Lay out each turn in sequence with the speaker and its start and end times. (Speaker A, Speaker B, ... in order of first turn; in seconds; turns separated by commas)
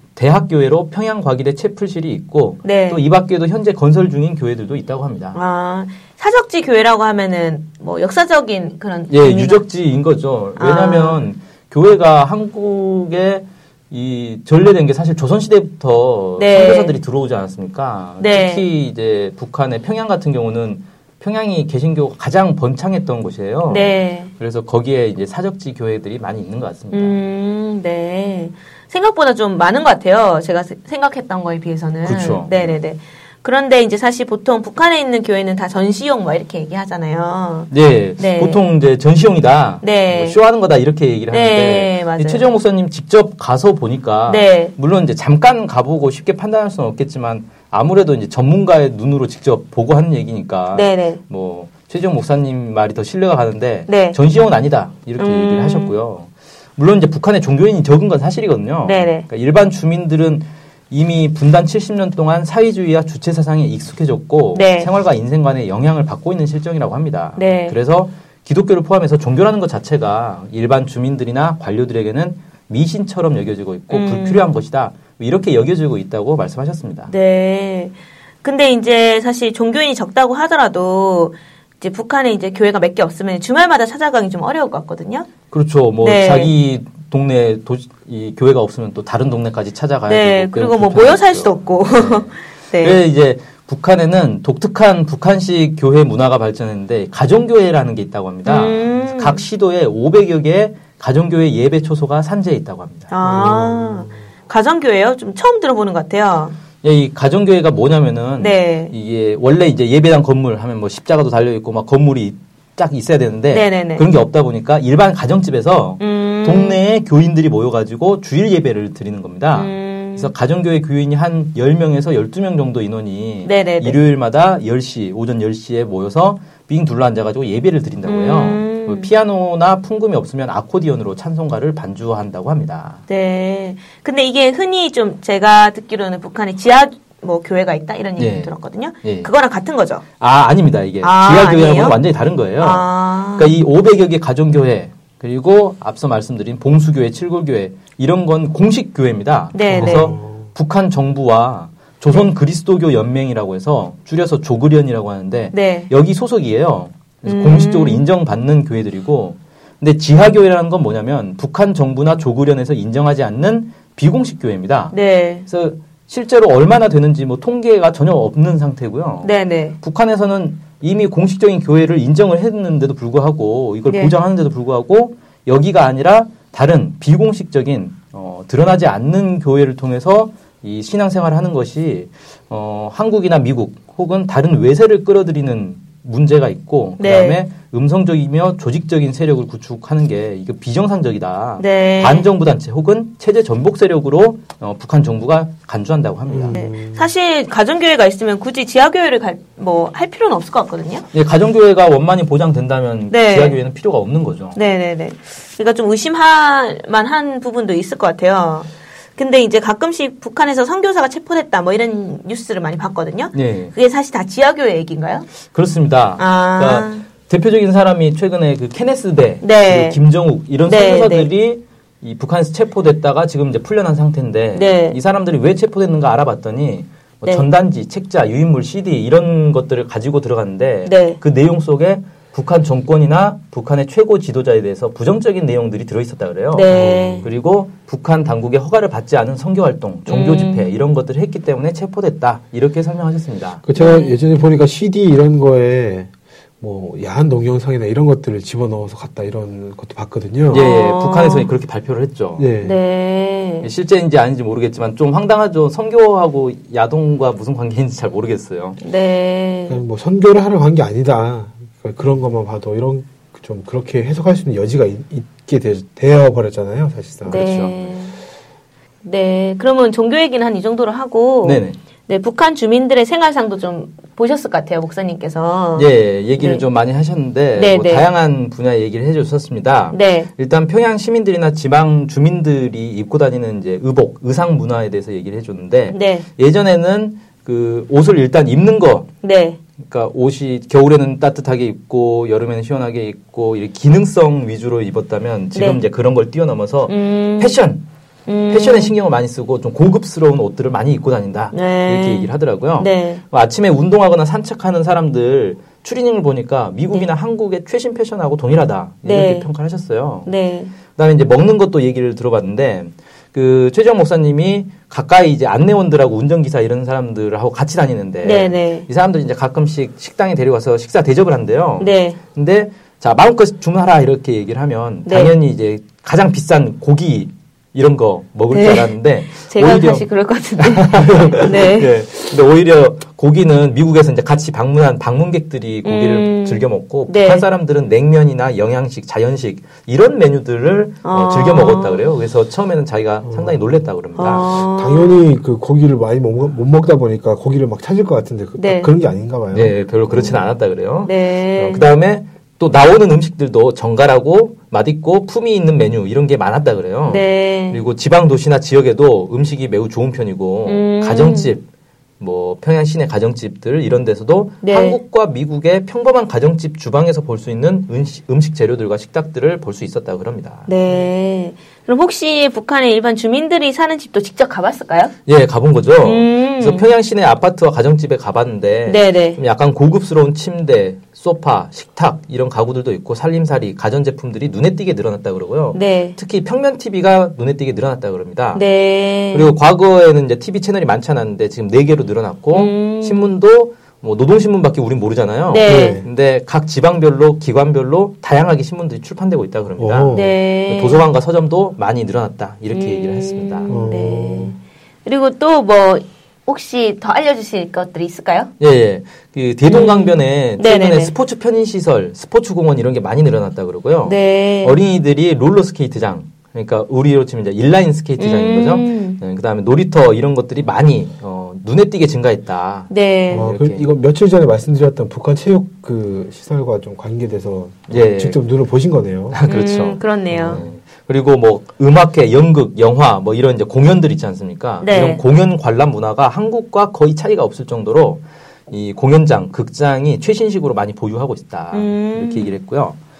Speaker A: 0.1-5.4, Speaker B: 2.6-3.0, Speaker B: 5.3-9.6, Speaker A: 9.1-27.2, Speaker B: 10.6-11.2, Speaker B: 16.4-16.9, Speaker B: 18.2-18.7, Speaker B: 23.7-24.3, Speaker B: 26.9-38.6, Speaker A: 32.0-32.8, Speaker A: 37.7-77.1, Speaker B: 39.8-40.4, Speaker B: 41.3-42.5, Speaker B: 44.3-44.7, Speaker B: 50.7-51.2, Speaker B: 53.9-54.2, Speaker B: 55.2-56.0, Speaker B: 58.8-59.2, Speaker B: 64.5-64.9, Speaker B: 67.3-67.8, Speaker B: 73.9-74.5, Speaker B: 77.1-85.3, Speaker A: 85.5-103.1, Speaker B: 86.0-86.5, Speaker B: 90.1-93.0, Speaker B: 98.4-99.4, Speaker B: 103.1-106.5, Speaker C: 103.2-104.2, Speaker A: 106.8-133.0, Speaker B: 108.4-108.9, Speaker B: 113.5-114.1, Speaker B: 116.0-116.8, Speaker B: 119.5-120.3, Speaker B: 123.4-124.0, Speaker B: 128.1-129.1, Speaker B: 133.1-140.0, Speaker A: 138.2-138.5, Speaker A: 139.0-139.3, Speaker A: 140.2-164.9, Speaker B: 141.0-142.0, Speaker B: 142.6-143.5, Speaker B: 149.5-150.1, Speaker C: 149.7-150.5, Speaker B: 155.5-155.9, Speaker B: 157.2-158.1, Speaker B: 164.9-165.4, Speaker A: 165.5-196.6, Speaker B: 169.2-169.8, Speaker B: 173.9-174.1, Speaker B: 187.0-187.4, Speaker B: 191.6-192.3, Speaker C: 196.3-197.1, Speaker B: 196.5-201.1, Speaker A: 201.1-204.6, Speaker B: 203.1-203.6, Speaker B: 204.5-215.3, Speaker A: 213.3-213.7, Speaker A: 215.5-243.6, Speaker B: 216.2-217.0, Speaker B: 219.4-220.0, Speaker B: 220.6-221.3, Speaker B: 224.5-225.0, Speaker B: 230.8-231.2, Speaker B: 236.5-237.3, Speaker C: 236.7-237.3, Speaker B: 240.1-240.7, Speaker C: 243.6-246.1, Speaker B: 243.7-244.1, Speaker C: 246.6-250.6, Speaker A: 250.5-252.4, Speaker B: 250.5-251.5, Speaker C: 252.4-252.8, Speaker B: 252.6-253.7, Speaker A: 253.6-258.8, Speaker B: 258.8-259.8, Speaker C: 259.7-267.5, Speaker B: 267.2-268.1, Speaker A: 267.3-267.8, Speaker B: 269.0-276.6, Speaker A: 271.4-271.8, Speaker A: 275.7-289.1, Speaker B: 277.5-278.1, Speaker B: 279.9-280.3, Speaker B: 285.9-286.2, Speaker B: 289.2-289.6, Speaker A: 289.8-297.8, Speaker B: 295.5-295.8, Speaker B: 296.9-297.6, Speaker B: 298.3-298.9, Speaker A: 298.5-310.3, Speaker B: 301.5-303.2, Speaker B: 309.0-309.5, Speaker B: 310.2-310.7, Speaker A: 310.9-330.1, Speaker B: 318.2-318.9, Speaker B: 321.8-322.2, Speaker B: 325.1-325.4, Speaker B: 328.5-332.0, Speaker A: 330.6-344.5, Speaker B: 335.8-337.5, Speaker B: 341.0-342.1, Speaker C: 343.2-343.8, Speaker B: 344.1-345.3, Speaker C: 344.4-350.5, Speaker B: 348.6-348.9, Speaker A: 349.5-361.6, Speaker B: 351.0-351.9, Speaker B: 357.1-357.8, Speaker B: 360.6-361.5, Speaker A: 362.2-370.7, Speaker B: 364.6-365.0, Speaker B: 370.7-375.1, Speaker A: 375.3-388.6, Speaker B: 376.0-376.9, Speaker B: 378.9-379.4, Speaker B: 385.7-386.1, Speaker B: 388.5-389.5, Speaker A: 389.3-403.7, Speaker B: 392.5-393.3, Speaker B: 395.5-396.0, Speaker C: 395.6-396.1, Speaker C: 399.8-400.3, Speaker B: 400.1-401.1, Speaker B: 402.7-408.5, Speaker C: 403.7-404.6, Speaker A: 408.6-423.8, Speaker B: 409.6-411.1, Speaker B: 414.1-414.8, Speaker B: 418.2-419.2, Speaker B: 422.9-423.5, Speaker C: 423.3-429.4, Speaker A: 427.9-428.4, Speaker A: 429.3-443.0, Speaker B: 429.5-430.6, Speaker C: 430.3-430.6, Speaker B: 434.8-435.2, Speaker B: 441.7-442.6